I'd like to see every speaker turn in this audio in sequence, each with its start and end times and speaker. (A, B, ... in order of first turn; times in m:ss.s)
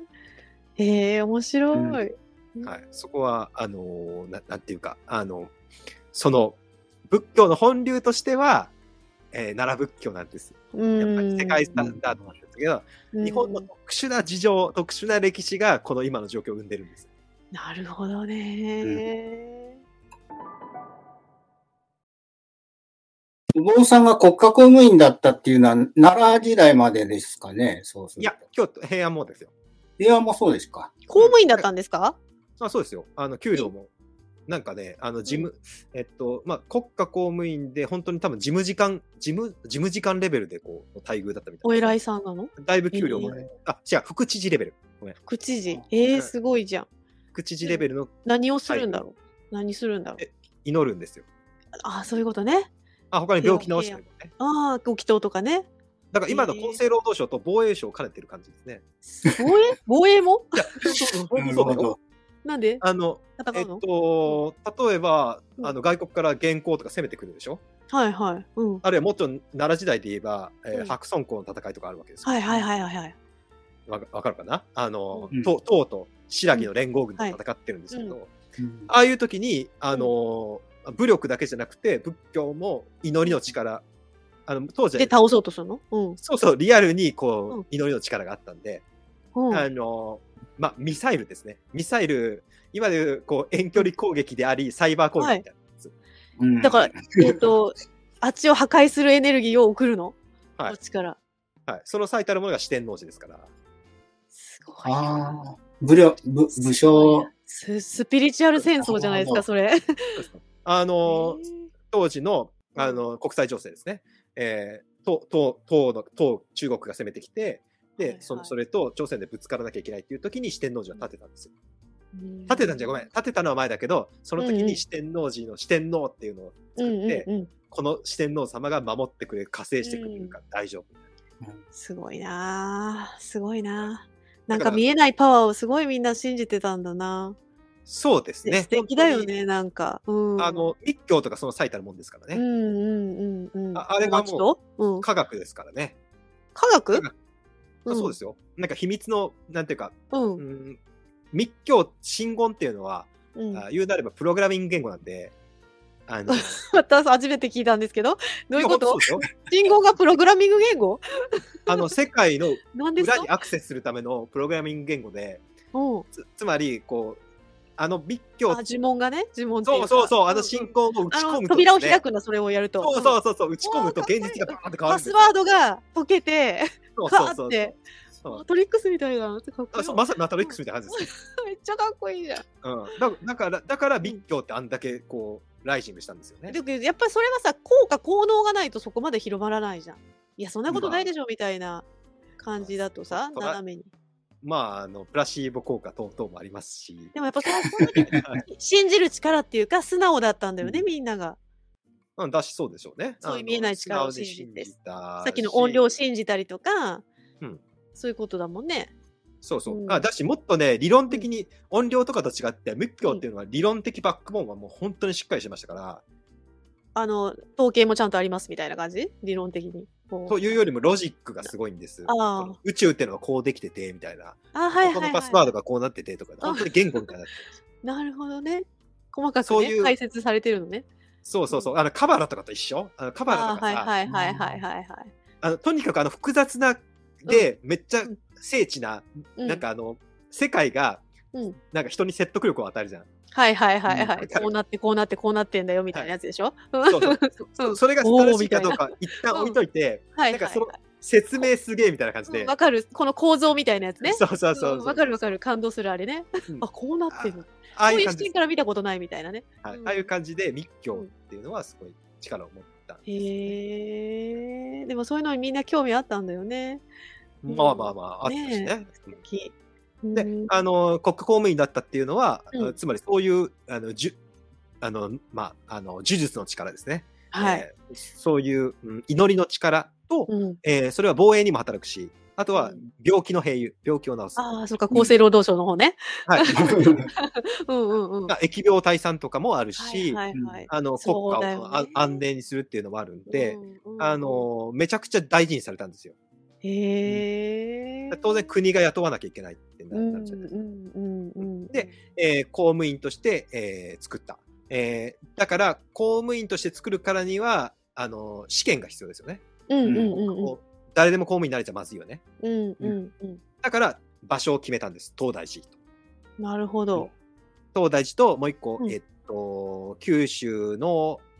0:00.8-0:02.8 A
0:01.7-0:02.0 B
0:02.6-0:05.5 C
0:06.1-0:08.7 C
0:09.3-0:17.1 C
0:10.7-0:11.8 A
0:11.8-0:12.2 B
0:13.1-0:13.7 A
0:17.5-0:19.8 A
0:23.5-0:28.4 B
0:28.2-0:29.5 C
0:30.0-0:30.9 B
0:31.1-0:32.2 A
0:31.2-0:31.6 C
0:32.6-0:33.9 C
0:34.5-0:42.0 C
0:41.6-0:43.3 A
0:42.6-0:45.2 C
0:43.2-0:43.5 B
0:45.3-0:46.9 A
0:47.3-0:48.1 C
0:47.6-0:50.2 A
0:48.6-0:49.0 C
0:50.2-0:51.2 C
0:51.8-0:52.7 A
0:53.1-0:54.3 C
0:53.4-0:55.7 A
0:56.1-0:58.8 C
0:56.3-0:56.8 A
0:59.1-1:00.6 A
1:00.5-1:01.9 C
1:01.3-1:02.0 B
1:02.4-1:02.8 A
1:02.8-1:07.6 C
1:03.4-1:04.4 A
1:07.9-1:08.8 A
1:08.8-1:12.4 C
1:12.2-1:13.1 A
1:13.9-1:18.3 C
1:16.5-1:17.4 A
1:17.9-1:18.2 A
1:18.6-1:18.9 B
1:18.9-1:23.8 C
1:24.5-1:25.1 C
1:25.0-1:26.2 A
1:26.2-1:28.8 C
1:29.3-1:29.6 A
1:29.5-1:35.9 C
1:36.4-1:37.4 B
1:36.6-1:40.2 A
1:40.7-1:41.2 A
1:41.7-1:43.5 C
1:44.3-1:45.3 A
1:44.8-1:47.3 B
1:46.9-1:50.2 A
1:48.8-1:49.4 B
1:50.2-2:01.5 C
1:51.0-1:51.7 A
1:58.0-1:58.5 A
2:02.1-2:02.9 A
2:02.5-2:11.0 C
2:04.4-2:04.8 A
2:06.8-2:07.5 A
2:09.8-2:10.3 A
2:11.7-2:17.4 A
2:14.5-2:14.8 C
2:17.9-2:19.3 C
2:18.4-2:20.7 A
2:20.4-2:22.4 C
2:22.3-2:25.0 A
2:23.7-2:24.5 C
2:25.0-2:26.0 C
2:26.5-2:27.0 A
2:27.9-2:28.1 A
2:27.9-2:30.8 C
2:30.1-2:30.4 A
2:31.3-2:35.3 C
2:33.3-2:33.6 A
2:36.1-2:36.6 C
2:36.3-2:41.8 A
2:38.6-2:39.2 C
2:41.7-2:45.4 C
2:42.7-2:43.3 A
2:45.7-2:46.0 A
2:46.1-2:47.2 C
2:47.8-2:48.6 C
2:48.5-3:02.4 A
2:49.6-2:52.0 C
2:52.8-2:55.3 C
2:57.0-2:58.4 C
2:59.7-3:01.1 C
3:02.6-3:06.6 C
3:06.5-3:11.8 A
3:10.7-3:11.1 C
3:12.4-3:13.9 A
3:12.6-3:13.6 C
3:14.4-3:17.1 C
3:17.1-3:21.4 A
3:18.1-3:18.4 C
3:22.2-3:25.8 C
3:23.2-3:27.0 A
3:27.9-3:28.9 A
3:29.4-3:36.0 C
3:29.7-3:30.0 A
3:36.9-3:40.6 A
3:40.3-3:47.5 C
3:42.0-3:42.6 A
3:44.5-3:45.5 A
3:46.4-3:47.1 A
3:47.8-3:50.8 A
3:49.4-3:49.9 C
3:51.2-3:53.9 C
3:53.3-3:55.1 A
3:54.1-3:54.6 B
3:55.4-4:01.1 C
3:59.4-3:59.6 A
4:01.6-4:03.1 C
4:03.3-4:09.6 A
4:04.0-4:04.5 C
4:06.9-4:12.5 C
4:10.1-4:10.8 A
4:12.3-4:20.1 A
4:14.0-4:15.4 C
4:16.5-4:18.3 C
4:19.6-4:23.5 C
4:23.0-4:26.8 A
4:27.4-4:29.2 C
4:27.5-4:30.5 A
4:30.1-4:34.2 C
4:34.8-4:44.6 C
4:37.3-4:37.6 A
4:40.3-4:40.6 A
4:42.5-4:42.8 A
4:44.4-4:48.3 A
4:46.3-4:46.6 C
4:46.5-4:47.1 B
4:48.3-4:56.1 C
4:49.8-4:52.2 A
4:50.3-4:50.6 B
4:53.3-4:54.4 A
4:56.6-4:58.5 A
4:58.1-5:00.5 C
4:59.9-5:02.0 A
5:01.4-5:09.4 C
5:09.7-5:10.5 A
5:09.8-5:10.1 B
5:10.0-5:12.2 C
5:12.4-5:13.4 A
5:13.6-5:15.7 C
5:16.4-5:17.1 A
5:17.7-5:21.2 C